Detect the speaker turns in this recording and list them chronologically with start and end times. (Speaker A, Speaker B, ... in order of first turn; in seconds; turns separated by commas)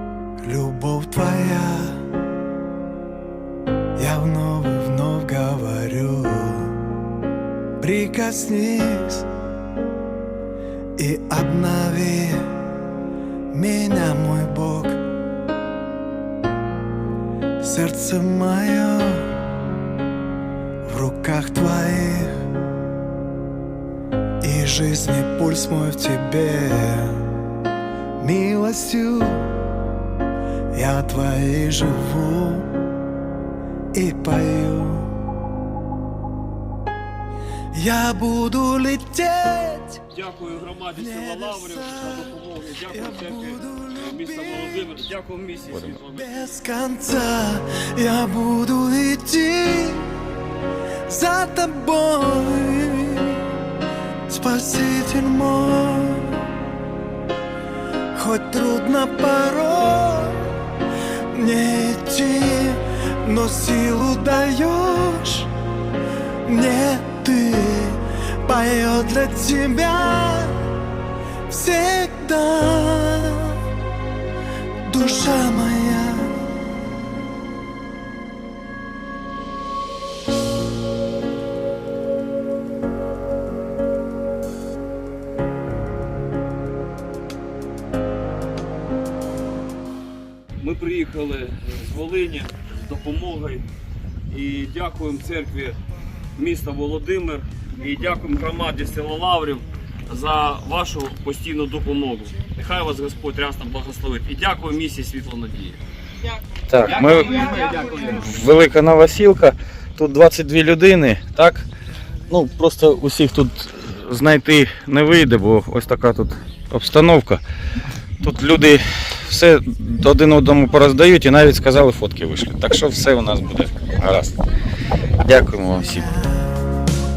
Speaker A: 0.4-2.0, Speaker A: 4.0-6.8, Speaker A: 7.8-9.3, Speaker A: 11.0-12.5, Speaker A: 13.5-15.0, Speaker A: 17.6-19.4, Speaker A: 20.8-22.4, Speaker A: 24.4-27.2, Speaker A: 28.2-29.5, Speaker A: 30.7-32.7, Speaker A: 33.9-35.1, Speaker A: 37.7-40.1, Speaker B: 40.1-46.3, Speaker A: 40.9-42.3, Speaker A: 42.9-44.9, Speaker C: 45.7-46.0, Speaker A: 46.1-50.1, Speaker A: 51.1-53.4, Speaker A: 54.3-56.5, Speaker A: 58.1-60.5, Speaker A: 61.3-65.5, Speaker A: 66.5-70.6, Speaker A: 71.5-73.6, Speaker A: 74.8-76.4, Speaker B: 90.6-93.7, Speaker B: 94.3-95.8, Speaker B: 96.4-105.8, Speaker C: 106.7-111.7, Speaker B: 107.1-108.2, Speaker C: 112.3-117.4, Speaker C: 118.2-124.4, Speaker C: 125.2-126.1, Speaker A: 126.1-126.5